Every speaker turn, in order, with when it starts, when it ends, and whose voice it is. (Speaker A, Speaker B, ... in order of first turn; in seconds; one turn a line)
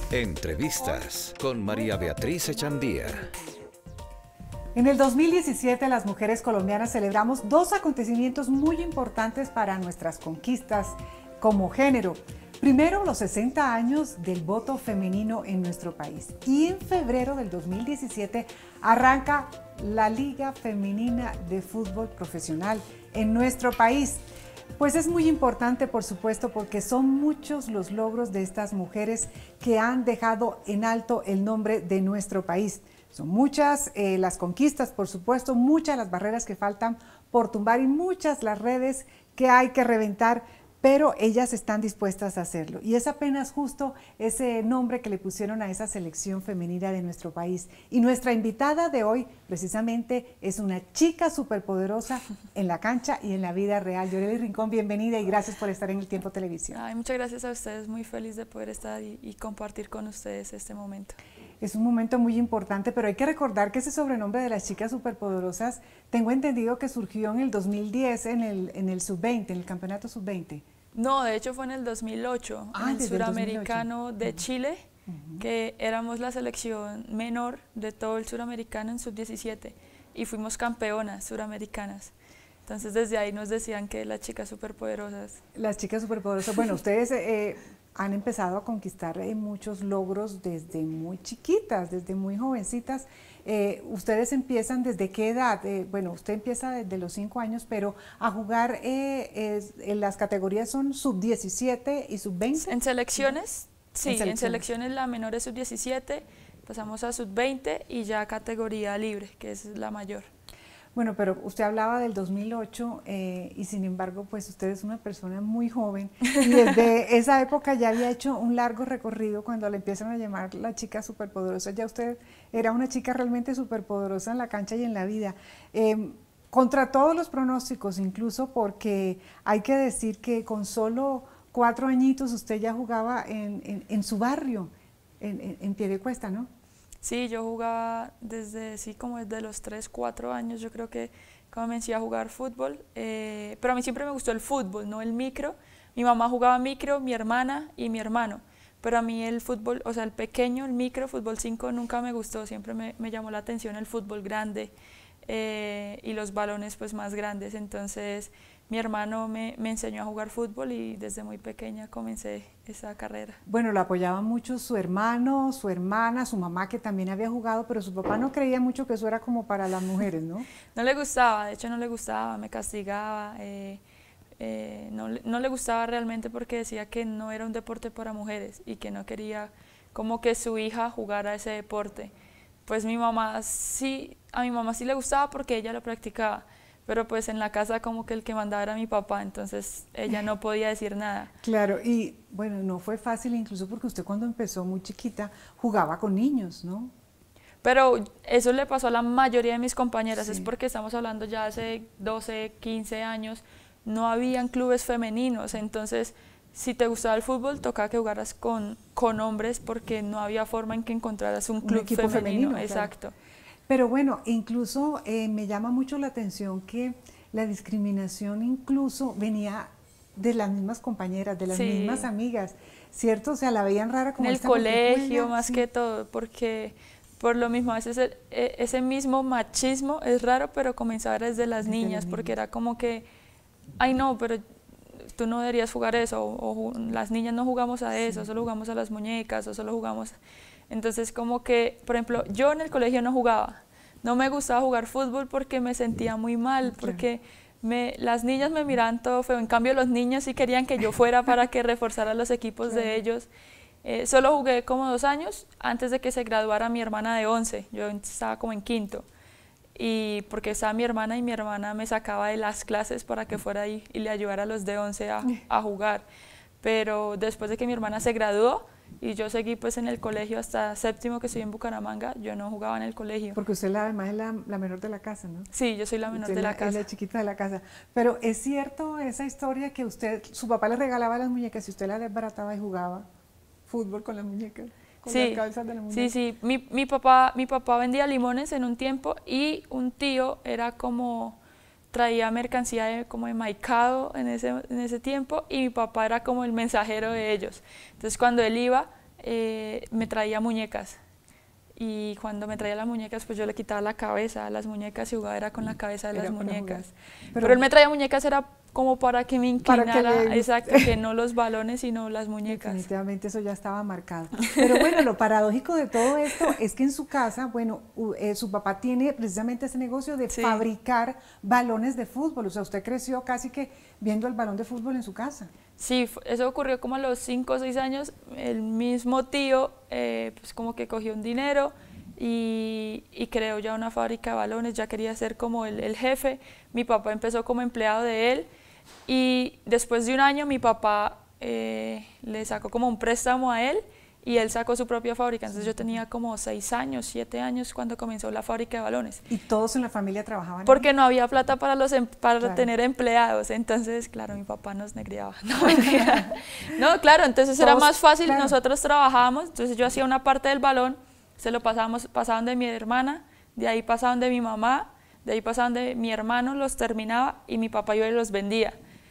Speaker A: 0.1-3.3
Speaker B: 0.8-1.1
Speaker B: 1.6-3.6
Speaker B: 4.7-24.2
Speaker B: 24.8-56.8
Speaker C: 56.7-61.2
Speaker B: 61.6-70.6
Speaker C: 70.9-74.8
Speaker B: 72.7-74.4
Speaker B: 75.1-75.4
Speaker C: 75.4-82.1
Speaker C: 82.7-85.4
Speaker B: 85.5-103.3
Speaker C: 102.6-110.3
Speaker B: 104.0-104.7
Speaker B: 110.9-136.5
Speaker C: 137.0-154.7
Speaker C: 155.2-163.4
Speaker B: 163.4-170.5
Speaker C: 170.7-173.8
Speaker C: 174.4-182.1
Speaker C: 182.7-191.3
Speaker B: 191.4-196.9
Speaker C: 197.6-213.1
Speaker B: 200.2-200.5
Speaker B: 211.6-212.9
Speaker B: 213.7-225.6
Speaker C: 221.5-222.1
Speaker C: 224.2-233.1
Speaker B: 231.6-232.3
Speaker C: 233.8-234.4
Speaker C: 235.0-240.1
Speaker B: 237.9-238.3
Speaker C: 240.7-253.3
Speaker B: 246.6-247.0
Speaker B: 252.7-253.0
Speaker C: 253.8-259.1
Speaker C: 259.7-266.0
Speaker C: 266.6-273.4
Speaker B: 273.3-275.5
Speaker C: 275.5-276.8
Speaker B: 276.1-283.1
Speaker B: 283.7-286.1
Speaker C: 285.1-291.4
Speaker C: 291.9-301.0
Speaker C: 301.8-312.8
Speaker B: 306.1-307.6
Speaker B: 309.6-310.9
Speaker B: 312.5-325.5
Speaker C: 314.6-315.0
Speaker C: 320.3-320.6
Speaker C: 325.8-338.5
Speaker C: 339.1-349.2
Speaker B: 345.5-346.0
Speaker B: 349.3-350.8
Speaker C: 350.6-368.8
Speaker B: 352.4-352.7
Speaker B: 355.8-356.3
Speaker B: 357.6-358.5